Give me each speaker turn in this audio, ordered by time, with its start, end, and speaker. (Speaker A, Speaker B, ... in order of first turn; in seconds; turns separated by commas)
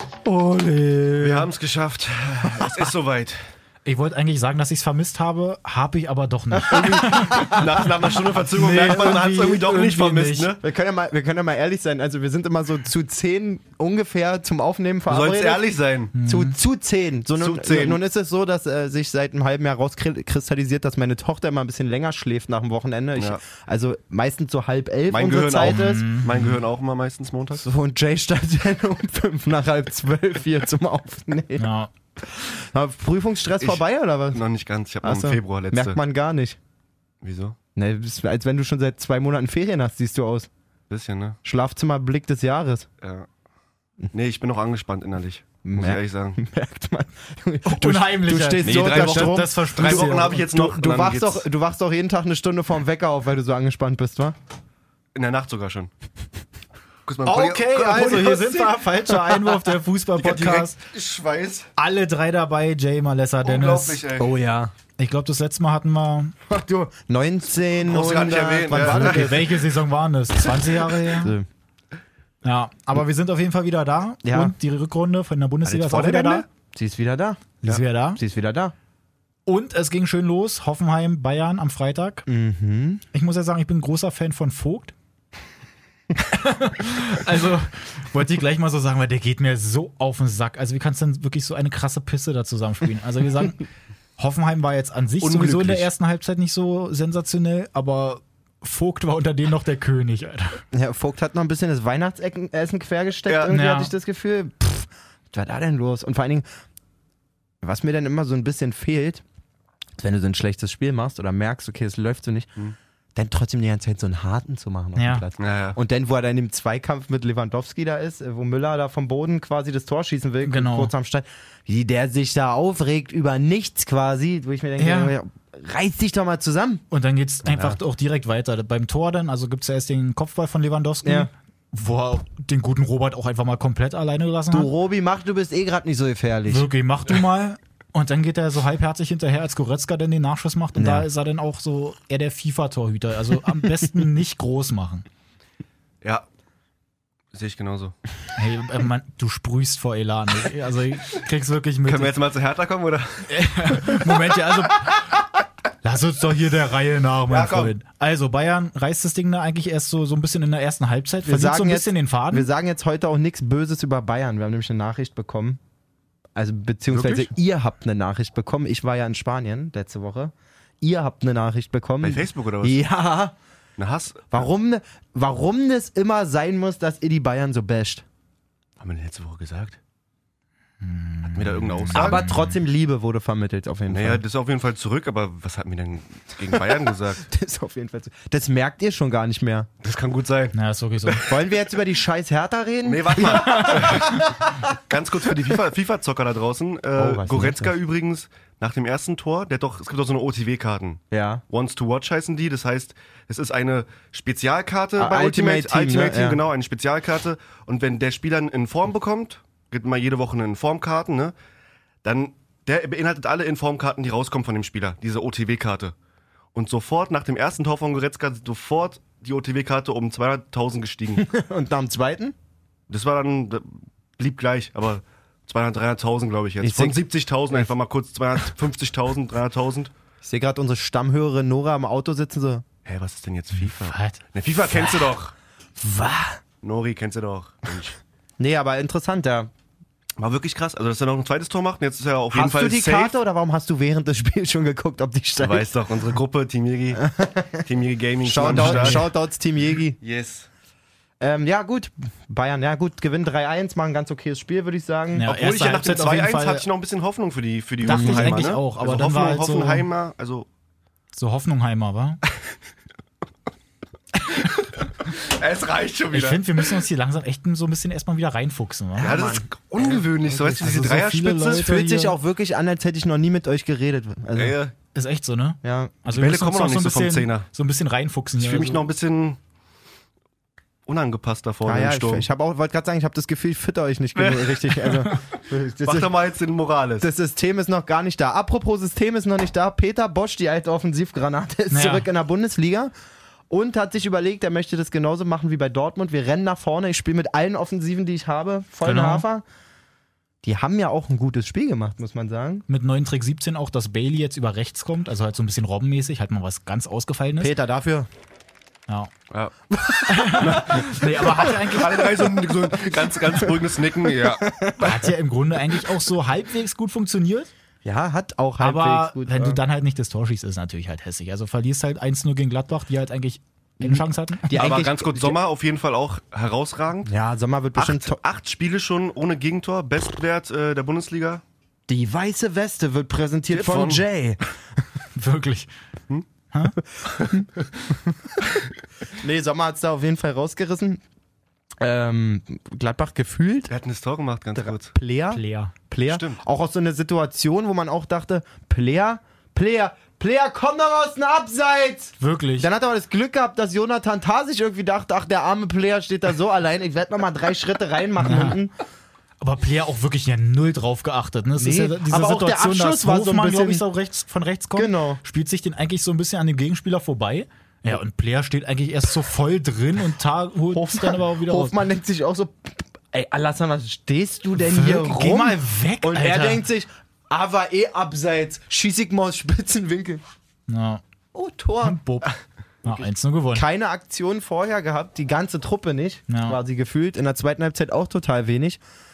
Speaker A: 0.3-1.4, Speaker B: 1.2-3.4, Speaker A: 3.9-7.8, Speaker C: 6.5-7.9, Speaker B: 7.3-10.6, Speaker A: 8.5-10.5, Speaker C: 8.8-9.2, Speaker C: 10.6-15.6, Speaker B: 15.1-16.1, Speaker A: 16.1-16.5, Speaker C: 16.2-26.1, Speaker B: 17.4-18.0, Speaker B: 23.1-23.4, Speaker B: 25.1-27.6, Speaker A: 25.7-26.4, Speaker C: 27.6-34.4, Speaker A: 31.6-31.9, Speaker B: 33.6-36.0, Speaker C: 35.0-36.6, Speaker B: 37.2-37.5, Speaker C: 37.8-40.5, Speaker B: 40.9-41.4, Speaker C: 41.4-42.9, Speaker B: 43.0-43.3, Speaker B: 44.1-46.4, Speaker C: 45.6-54.4, Speaker A: 47.6-50.4, Speaker B: 48.6-51.5, Speaker B: 55.1-55.9, Speaker B: 57.0-58.7, Speaker C: 57.3-59.8, Speaker A: 57.3-60.8, Speaker B: 60.2-61.7, Speaker A: 61.8-64.0, Speaker B: 63.4-64.3, Speaker C: 64.2-64.7, Speaker A: 65.0-66.3, Speaker C: 66.5-69.6, Speaker B: 67.8-69.4, Speaker A: 68.7-71.3, Speaker C: 70.5-71.5, Speaker A: 72.4-76.5, Speaker C: 74.2-74.5, Speaker B: 75.6-76.5, Speaker C: 76.7-77.6, Speaker A: 77.6-78.2, Speaker C: 78.2-78.7, Speaker A: 79.5-82.2, Speaker C: 82.2-83.0, Speaker A: 83.1-84.9, Speaker A: 86.2-93.6, Speaker A: 94.2-100.6, Speaker B: 95.2-95.9, Speaker C: 100.7-106.5, Speaker B: 103.3-103.5, Speaker A: 103.5-103.9, Speaker C: 107.6-109.2, Speaker C: 110.0-112.5, Speaker C: 113.1-126.8, Speaker A: 115.0-115.2, Speaker B: 115.4-115.8, Speaker A: 120.4-120.9, Speaker A: 124.8-125.2, Speaker A: 126.9-134.7, Speaker B: 127.5-127.8, Speaker C: 131.0-131.3, Speaker C: 134.5-136.7, Speaker A: 136.5-145.0, Speaker C: 140.8-141.1, Speaker B: 147.3-147.9, Speaker A: 148.4-152.1, Speaker B: 151.8-154.0, Speaker A: 153.3-155.1, Speaker A: 155.8-162.5, Speaker B: 157.3-157.7, Speaker C: 161.2-165.6, Speaker C: 166.3-173.3, Speaker B: 166.9-167.3, Speaker B: 172.0-172.8, Speaker B: 173.8-174.4, Speaker C: 174.3-178.0, Speaker B: 178.8-179.8, Speaker A: 180.8-182.6, Speaker B: 181.3-182.2, Speaker C: 181.9-184.2, Speaker B: 183.9-187.3, Speaker C: 186.5-186.8, Speaker C: 187.3-189.7, Speaker B: 189.8-190.6, Speaker A: 190.5-191.3, Speaker C: 191.2-194.6, Speaker B: 192.8-194.3, Speaker A: 193.4-194.0, Speaker B: 194.9-211.3, Speaker C: 197.0-197.7, Speaker C: 201.1-201.4, Speaker C: 205.0-206.4, Speaker B: 212.0-215.9, Speaker B: 216.5-221.3, Speaker C: 221.2-222.3, Speaker B: 222.9-229.9, Speaker C: 226.6-227.7, Speaker C: 230.2-232.7, Speaker B: 232.8-235.3, Speaker A: 233.6-234.2, Speaker C: 234.7-235.0, Speaker C: 235.8-236.4, Speaker B: 236.6-238.0, Speaker C: 238.4-239.5, Speaker B: 240.2-243.2, Speaker C: 242.3-245.7, Speaker B: 245.4-247.1, Speaker C: 246.9-247.7, Speaker B: 247.6-249.1, Speaker C: 248.2-250.0, Speaker A: 248.4-249.1, Speaker B: 250.0-250.5, Speaker C: 251.2-255.3, Speaker A: 255.1-256.6, Speaker B: 255.3-260.5, Speaker A: 257.8-259.9, Speaker C: 257.9-258.5, Speaker A: 261.1-262.2, Speaker B: 265.1-266.4, Speaker A: 266.1-269.2, Speaker C: 269.0-270.5, Speaker B: 269.0-271.6, Speaker A: 270.4-272.1, Speaker C: 271.5-274.6, Speaker B: 274.3-274.7, Speaker A: 274.9-278.8, Speaker C: 275.6-275.9, Speaker B: 276.1-277.5, Speaker B: 278.4-279.4, Speaker B: 280.9-282.3, Speaker C: 281.6-286.1, Speaker B: 284.2-285.2, Speaker B: 285.8-287.1, Speaker C: 287.0-292.9, Speaker A: 291.7-292.1, Speaker C: 293.5-299.4, Speaker A: 298.8-299.3, Speaker C: 300.4-302.6, Speaker A: 302.7-307.5, Speaker C: 307.4-308.1, Speaker C: 309.7-315.1, Speaker A: 310.1-312.1, Speaker B: 310.4-314.5, Speaker A: 314.8-317.5, Speaker C: 317.8-319.6, Speaker A: 318.6-324.5, Speaker C: 323.8-325.4, Speaker B: 324.5-327.1, Speaker C: 327.1-328.2, Speaker B: 327.8-331.4, Speaker C: 331.9-334.4, Speaker B: 333.5-334.1, Speaker A: 335.2-335.7, Speaker C: 339.1-341.0, Speaker C: 341.8-343.7, Speaker B: 343.7-344.9, Speaker C: 344.6-358.7, Speaker A: 345.3-345.7, Speaker B: 346.1-346.4, Speaker A: 352.2-352.7, Speaker A: 358.2-358.6, Speaker A: 359.4-371.8, Speaker C: 361.6-363.9, Speaker C: 364.8-365.2, Speaker C: 370.7-380.2, Speaker A: 374.6-376.6, Speaker A: 380.7-381.0, Speaker C: 381.3-382.0, Speaker A: 381.8-382.3, Speaker A: 382.8-383.6, Speaker C: 382.9-388.8, Speaker A: 386.3-386.6